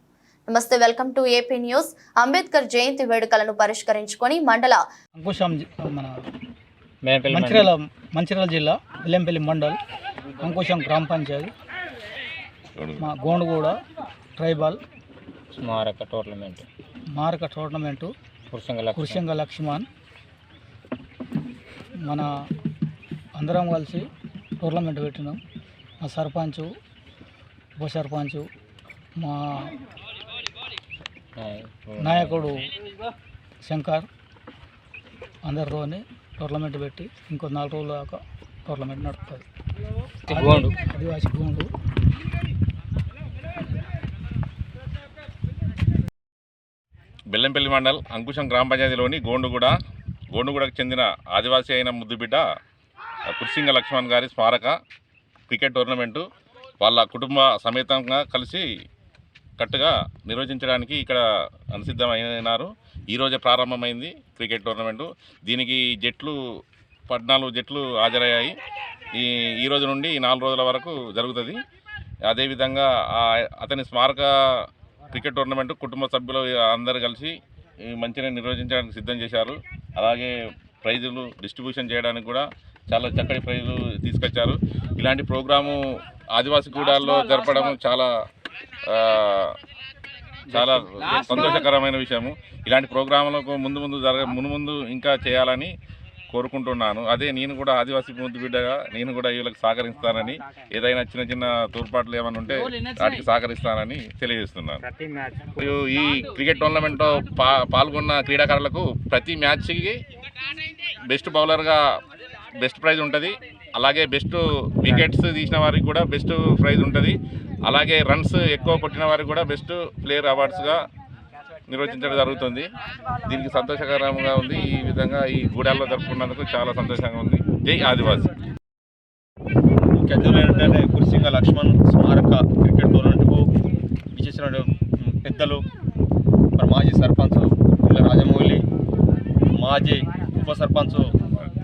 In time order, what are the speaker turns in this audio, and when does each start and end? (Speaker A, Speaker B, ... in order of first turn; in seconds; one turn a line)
Speaker A: 0.5-4.8
Speaker B: 5.2-6.1
Speaker C: 7.0-7.7
Speaker B: 7.2-9.8
Speaker B: 10.4-11.5
Speaker D: 12.8-13.0
Speaker B: 13.0-13.8
Speaker B: 14.4-14.8
Speaker C: 15.6-16.7
Speaker B: 17.2-18.1
Speaker C: 18.5-19.2
Speaker B: 18.9-19.9
Speaker B: 22.1-22.3
Speaker B: 23.4-24.1
Speaker B: 24.6-25.4
Speaker B: 26.0-26.7
Speaker B: 27.8-28.4
Speaker B: 29.2-29.8
Speaker C: 31.4-32.5
Speaker B: 32.0-32.7
Speaker B: 33.6-34.1
Speaker B: 35.5-39.4
Speaker C: 40.3-40.7
Speaker B: 40.3-41.7
Speaker D: 47.3-49.7
Speaker D: 50.3-52.5
Speaker D: 53.3-54.8
Speaker D: 55.5-56.2
Speaker D: 56.8-58.6
Speaker D: 59.6-61.2
Speaker D: 61.7-66.3
Speaker D: 67.1-68.5
Speaker D: 69.2-71.6
Speaker D: 72.3-74.3
Speaker D: 75.1-77.3
Speaker D: 77.9-80.3
Speaker D: 80.8-85.8
Speaker D: 86.3-88.1
Speaker D: 88.9-89.5
Speaker D: 90.5-95.7
Speaker D: 96.3-104.8
Speaker C: 104.8-105.6
Speaker D: 105.6-110.0
Speaker D: 111.1-111.8
Speaker D: 112.6-120.8
Speaker D: 121.7-122.7
Speaker D: 123.2-128.3
Speaker E: 129.9-133.5
Speaker E: 134.1-135.6
Speaker E: 136.6-138.6
Speaker E: 139.5-141.1